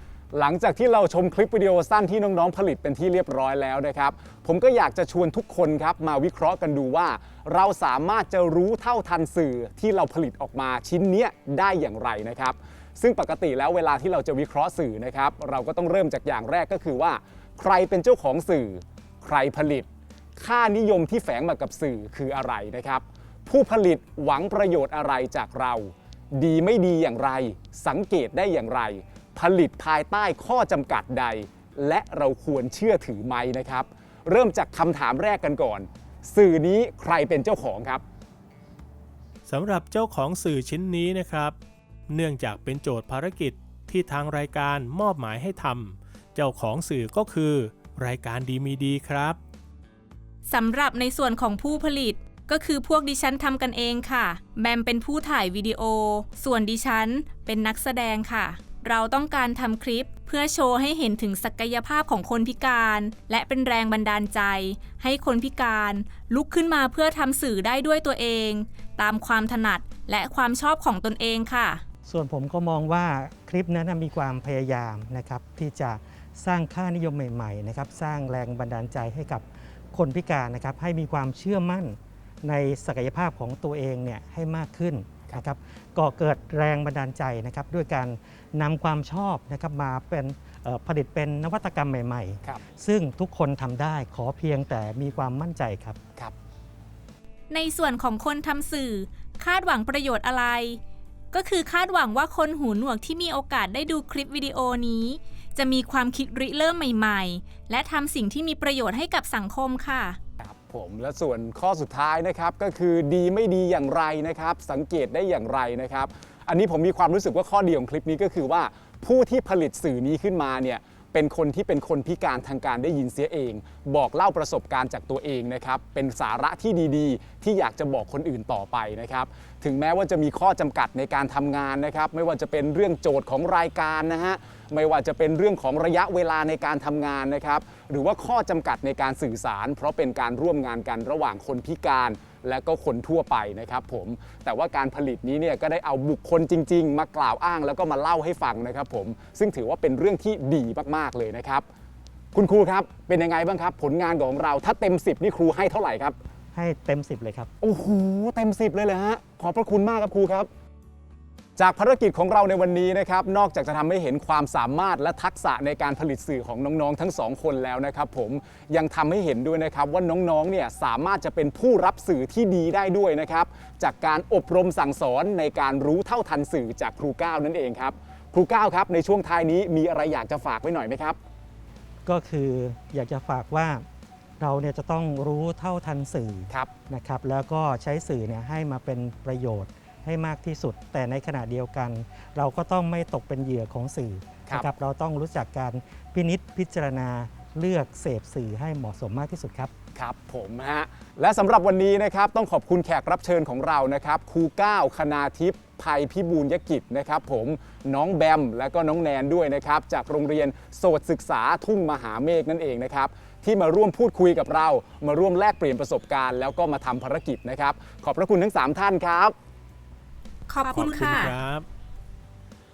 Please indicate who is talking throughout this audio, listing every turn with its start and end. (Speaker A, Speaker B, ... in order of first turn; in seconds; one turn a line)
Speaker A: 0.3-38.0
Speaker B: 39.5-41.5
Speaker B: 42.1-49.4
Speaker C: 50.5-71.8
Speaker D: 72.1-96.0
Speaker C: 97.5-100.8
Speaker C: 101.3-110.2
Speaker A: 110.4-151.7
Speaker A: 152.3-156.2
Speaker D: 156.5-157.5
Speaker A: 157.6-160.5
Speaker A: 161.6-181.2
Speaker D: 182.1-183.8
Speaker D: 184.4-199.7
Speaker A: 199.9-219.3
Speaker C: 220.5-221.3
Speaker B: 220.7-221.7